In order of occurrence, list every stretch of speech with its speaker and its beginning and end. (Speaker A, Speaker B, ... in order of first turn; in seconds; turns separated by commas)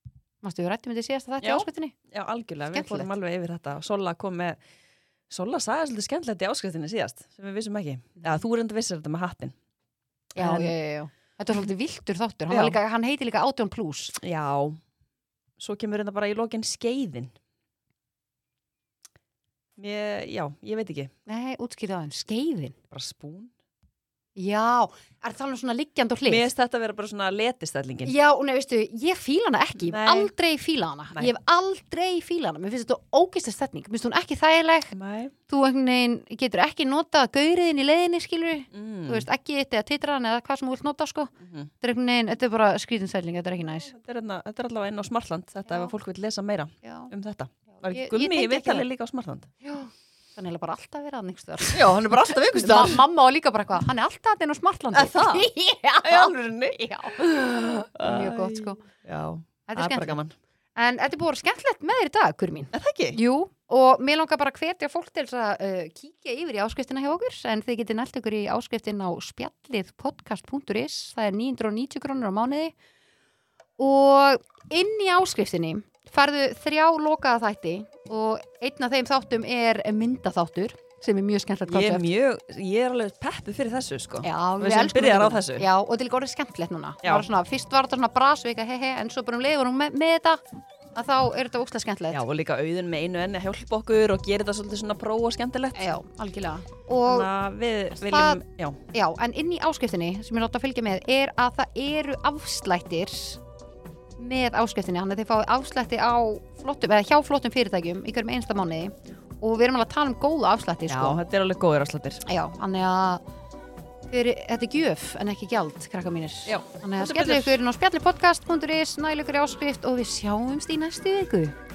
Speaker A: 0.4-1.9, Speaker B: 1.4-4.6, Speaker A: 2.7-3.1, Speaker B: 5.3-9.6, Speaker A: 10.3-14.2, Speaker B: 10.4-10.7, Speaker B: 12.5-12.8, Speaker B: 14.2-14.8, Speaker B: 15.6-17.4, Speaker B: 19.8-21.1, Speaker A: 21.3-22.8, Speaker B: 22.9-23.5, Speaker A: 24.4-26.5, Speaker B: 26.3-28.1, Speaker A: 28.0-34.9, Speaker B: 29.8-30.3, Speaker B: 34.9-35.3, Speaker A: 35.5-43.9, Speaker B: 38.7-39.3, Speaker B: 41.4-41.7, Speaker B: 43.6-49.5, Speaker A: 46.8-47.1, Speaker A: 47.7-48.9, Speaker A: 49.6-57.3, Speaker B: 51.7-53.0, Speaker B: 54.9-55.5, Speaker B: 56.0-60.4, Speaker A: 58.0-58.8, Speaker A: 59.7-60.2, Speaker A: 60.8-72.7, Speaker B: 62.7-63.2, Speaker A: 73.8-82.1, Speaker B: 81.7-85.7, Speaker A: 84.2-90.4, Speaker B: 87.0-87.3, Speaker A: 91.0-92.2, Speaker B: 92.1-96.0, Speaker A: 95.8-97.3, Speaker B: 97.0-98.8, Speaker A: 98.1-98.4, Speaker A: 98.9-103.4, Speaker A: 104.2-111.2, Speaker B: 110.9-112.2, Speaker A: 112.3-113.2, Speaker A: 114.1-121.5, Speaker B: 116.5-117.6